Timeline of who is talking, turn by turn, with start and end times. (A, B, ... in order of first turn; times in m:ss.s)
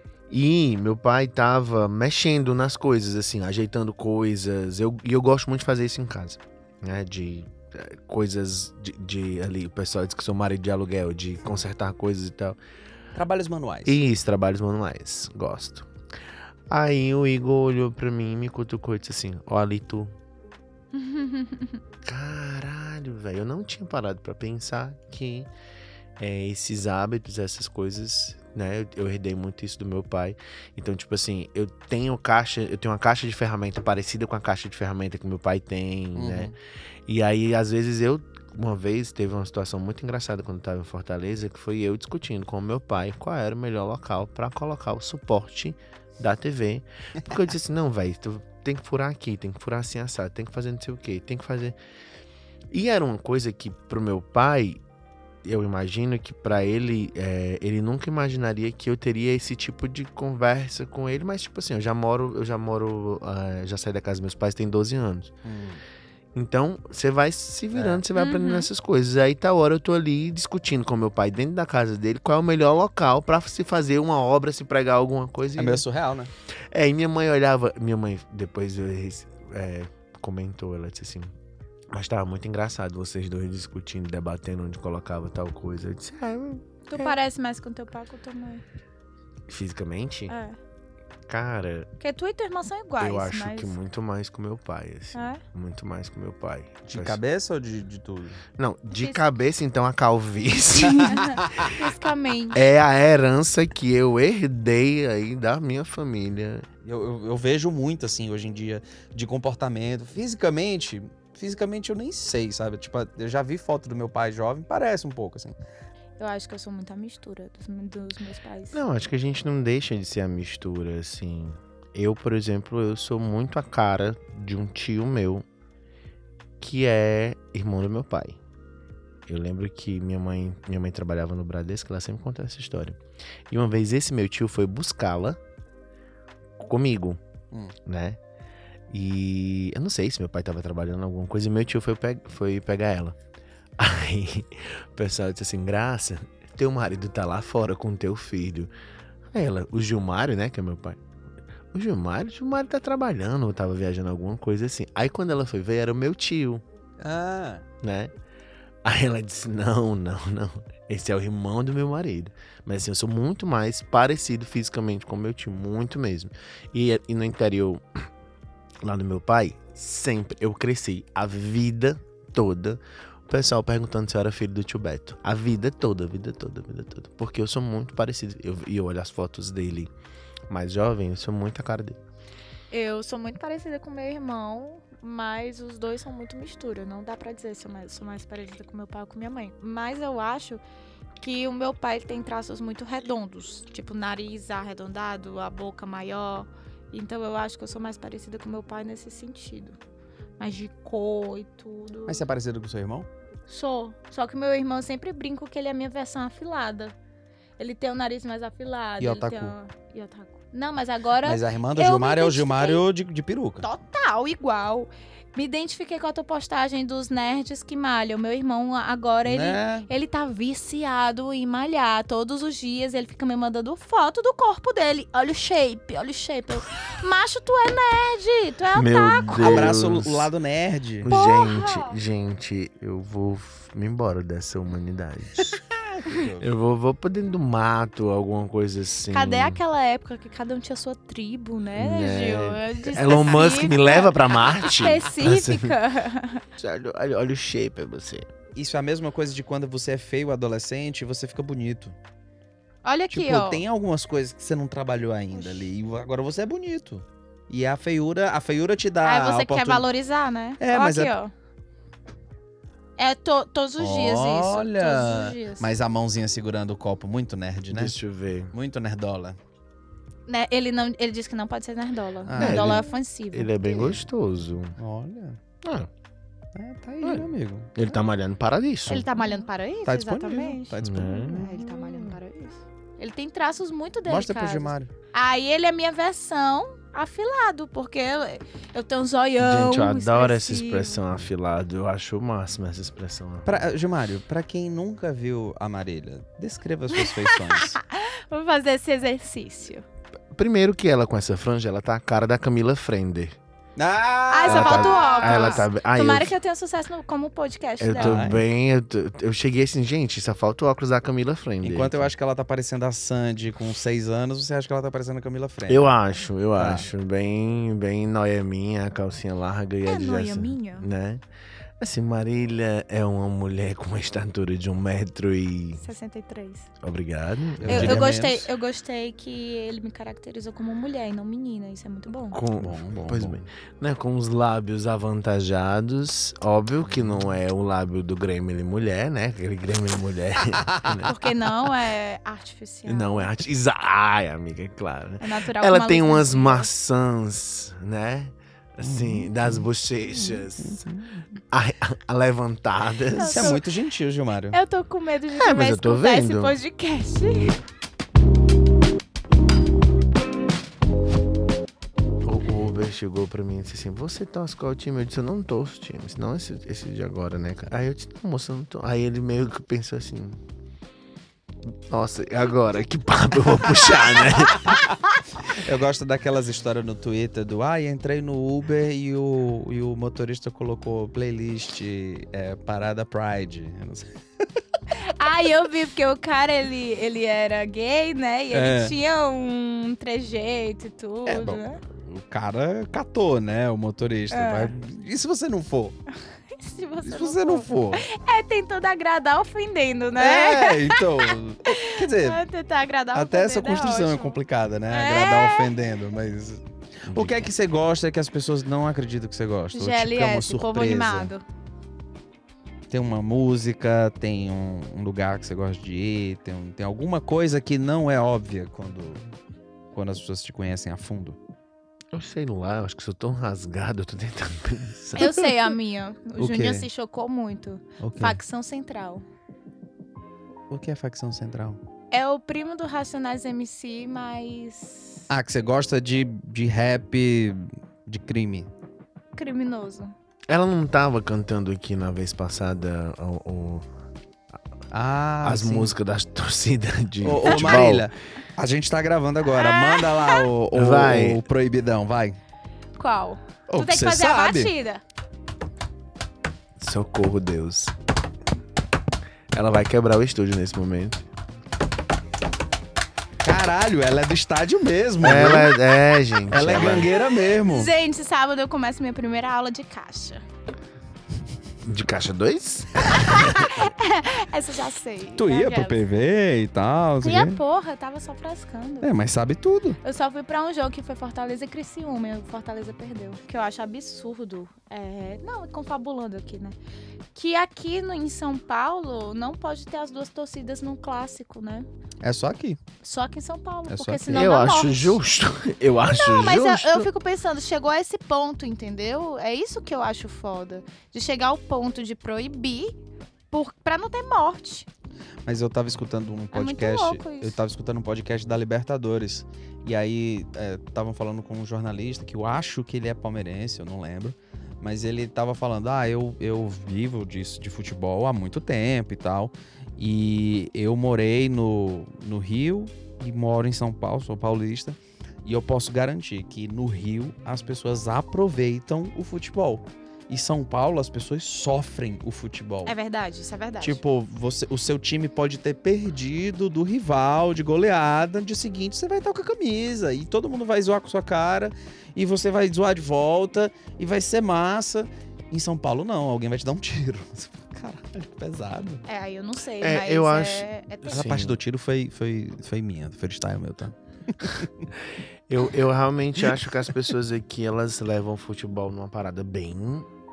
0:00.3-0:12.6 A
0:13.1-0:14.0 B
0:13.8-0:15.9 A
0:16.7-0:20.1 A
0:20.9-0:21.8 C
0:22.0-0:25.5 A
0:26.2-0:36.6 A
0:36.2-0:36.5 B
0:37.1-0:51.8 A
0:52.7-0:54.8 A
0:55.4-1:05.3 A
1:05.4-1:05.8 B
1:06.3-1:15.8 A
1:07.7-1:08.0 B
1:08.2-1:08.7 C
1:15.6-1:16.3 B
1:16.7-1:21.3 A
1:21.9-1:27.2 A
1:26.9-1:28.6 C
1:29.5-1:30.3 A
1:30.3-1:30.6 C
1:31.3-1:31.9 A
1:32.0-1:33.8 C
1:33.0-1:37.2 A
1:35.1-1:35.4 C
1:36.9-1:38.4 B
1:38.6-1:41.6 A
1:38.9-1:39.2 C
1:40.8-1:42.6 C
1:41.0-1:41.7 B
1:42.5-1:46.7 A
1:46.8-1:55.6 B
1:56.2-1:58.8 C
1:58.7-2:05.4 A
2:06.6-2:08.4 A
2:09.3-2:13.0 A
2:13.5-2:15.4 A
2:16.6-2:17.2 A
2:17.8-2:18.2 A
2:18.9-2:23.2 A
2:23.8-2:28.7 A
2:29.3-2:31.0 A
2:31.7-2:36.6 A
2:37.0-2:37.6 B
2:37.8-2:38.1 A
2:38.8-2:48.1 A
2:48.8-2:59.9 A
3:00.5-3:02.0 A
3:02.7-3:10.6 C
3:11.2-3:19.8 C
3:20.4-3:22.2 C
3:22.1-3:23.1 B
3:23.5-3:27.0 C
3:27.6-3:32.8 C
3:29.0-3:29.5 B
3:31.2-3:33.7 B
3:33.6-3:49.7 C
3:39.2-3:39.9 B
3:48.7-3:50.3 A
3:49.4-3:51.1 B
3:51.0-3:55.6 A
3:51.1-3:52.0 C
3:55.4-3:56.5 B
3:56.4-3:59.6 A
3:59.1-4:06.4 C
4:01.8-4:05.8 A
4:06.6-4:08.3 A
4:08.6-4:12.0 B
4:12.8-4:13.6 C
4:13.1-4:19.9 B
4:15.3-4:15.6 C
4:19.0-4:21.3 C
4:20.6-4:21.1 B
4:23.0-4:25.7 C
4:23.8-4:28.0 B
4:27.7-4:28.5 A
4:28.5-4:29.4 B
4:30.3-4:34.0 C
4:32.3-4:32.8 B
4:32.4-4:34.8 A
4:34.8-4:35.4 B
4:35.6-4:35.9 A
4:36.6-4:38.0 B
4:37.0-4:39.1 A
4:38.9-4:51.0 C
4:39.9-4:41.9 B
4:40.8-4:41.7 A
4:44.1-4:44.9 B
4:49.4-4:53.7 A
4:53.4-4:57.8 B
4:56.9-4:59.8 C
5:00.3-5:03.4 A
5:03.8-5:05.6 B
5:04.3-5:08.2 C
5:04.4-5:06.4 A
5:07.8-5:12.1 A
5:08.0-5:08.4 B
5:11.6-5:15.9 B
5:15.7-5:21.2 A
5:16.6-5:16.9 B
5:19.8-5:20.9 C
5:21.8-5:25.8 A
5:25.8-5:26.7 C
5:26.8-5:28.1 A
5:27.6-5:28.5 B
5:27.7-5:32.4 C
5:32.3-5:41.2 A
5:32.6-5:33.4 B
5:36.9-5:37.3 B
5:40.7-5:41.1 B
5:41.0-5:43.3 C
5:42.9-5:50.8 A
5:45.2-5:46.7 C
5:48.8-5:51.3 B
5:51.5-5:53.6 A
5:53.1-5:53.6 C
5:53.2-5:54.6 B
5:54.5-5:57.6 C
5:55.3-5:56.6 A
6:02.2-6:10.4 A
6:11.9-6:14.8 A
6:14.3-6:14.9 B
6:15.4-6:24.5 B
6:24.9-6:31.8 C
6:28.5-6:29.0 B
6:31.3-6:36.0 B
6:34.3-6:34.7 C
6:36.3-6:44.4 C
6:37.0-6:38.1 B
6:40.2-6:42.4 B
6:43.2-6:51.3 B
6:44.9-6:45.7 C
6:47.1-6:47.5 A
6:49.7-6:51.4 C
6:52.9-6:59.2 B
6:59.9-7:01.4 B
7:02.1-7:05.5 A
7:05.2-7:09.2 C
7:06.4-7:06.9 B
7:08.0-7:08.4 B
7:10.7-7:11.8 B
7:12.1-7:15.3 C
7:15.3-7:18.7 B
7:19.4-7:20.1 C
7:20.5-7:23.9 A
7:24.9-7:25.9 B
7:25.4-7:28.1 A
7:27.2-7:32.4 B
7:29.5-7:30.5 C
7:30.7-7:31.4 A
7:33.0-7:35.0 C
7:33.7-7:34.7 B
7:36.8-7:38.0 A
7:39.5-7:41.3 A
7:43.4-7:45.8 B
7:45.2-7:47.1 A
7:46.5-7:47.9 B
7:47.2-7:50.4 C
7:51.8-7:53.7 A
7:53.1-7:56.0 C
7:55.4-7:57.6 B
7:57.2-7:59.1 C
7:59.0-8:00.0 B
8:00.0-8:06.8 C
8:07.4-8:11.9 C
8:12.2-8:12.8 B
8:13.0-8:15.2 C
8:13.9-8:14.4 B
8:14.3-8:17.1 A
8:16.1-8:23.0 C
8:23.5-8:24.9 C
8:25.5-8:53.0 B
8:26.5-8:27.6 C
8:52.8-8:54.0 C
8:53.8-9:09.0 B
9:09.1-9:11.3 C
9:09.8-9:11.6 A
9:11.1-9:14.9 B
9:15.5-9:20.1 A